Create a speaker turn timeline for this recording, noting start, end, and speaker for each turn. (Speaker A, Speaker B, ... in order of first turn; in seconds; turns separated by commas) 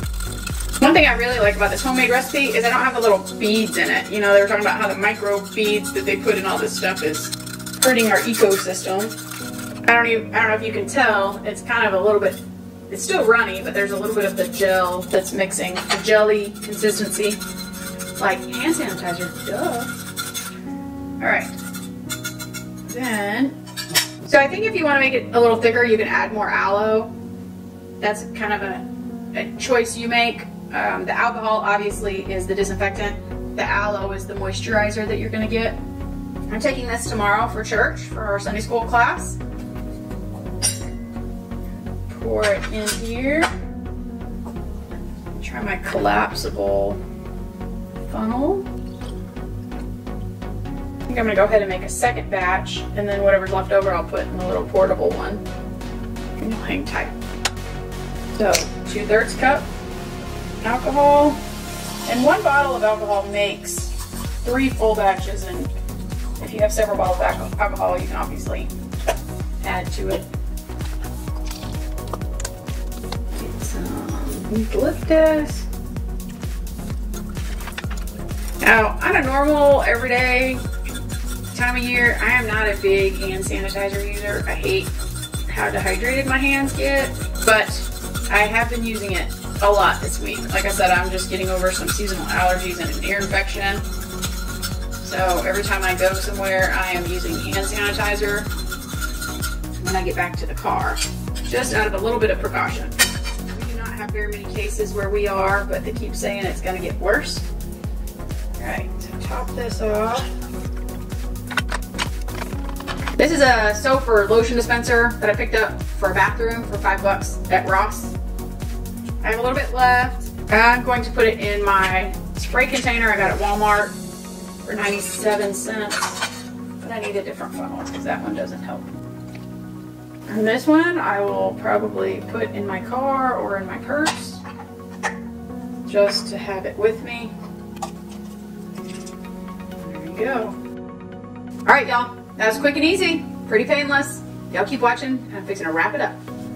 Speaker A: 0.8-9.2, Speaker A: 9.9-17.4, Speaker A: 18.2-19.9, Speaker A: 21.2-21.5, Speaker A: 22.8-23.6, Speaker A: 24.2-27.1, Speaker A: 28.0-35.8, Speaker A: 36.5-39.4, Speaker A: 42.1-43.5, Speaker A: 45.3-47.0, Speaker A: 48.1-48.7, Speaker A: 51.1-55.4, Speaker A: 56.4-57.2, Speaker A: 58.3-59.7, Speaker A: 60.6-61.4, Speaker A: 62.0-65.7, Speaker A: 66.4-68.7, Speaker A: 69.6-70.2, Speaker A: 73.3-75.7, Speaker A: 78.6-80.6, Speaker A: 81.5-93.8, Speaker A: 95.0-98.5, Speaker A: 99.8-103.0, Speaker A: 103.5-107.5, Speaker A: 108.6-110.3, Speaker A: 113.2-118.2, Speaker A: 119.2-124.0, Speaker A: 124.6-128.9, Speaker A: 130.3-134.4, Speaker A: 135.9-137.3, Speaker A: 139.8-140.6, Speaker A: 141.7-146.2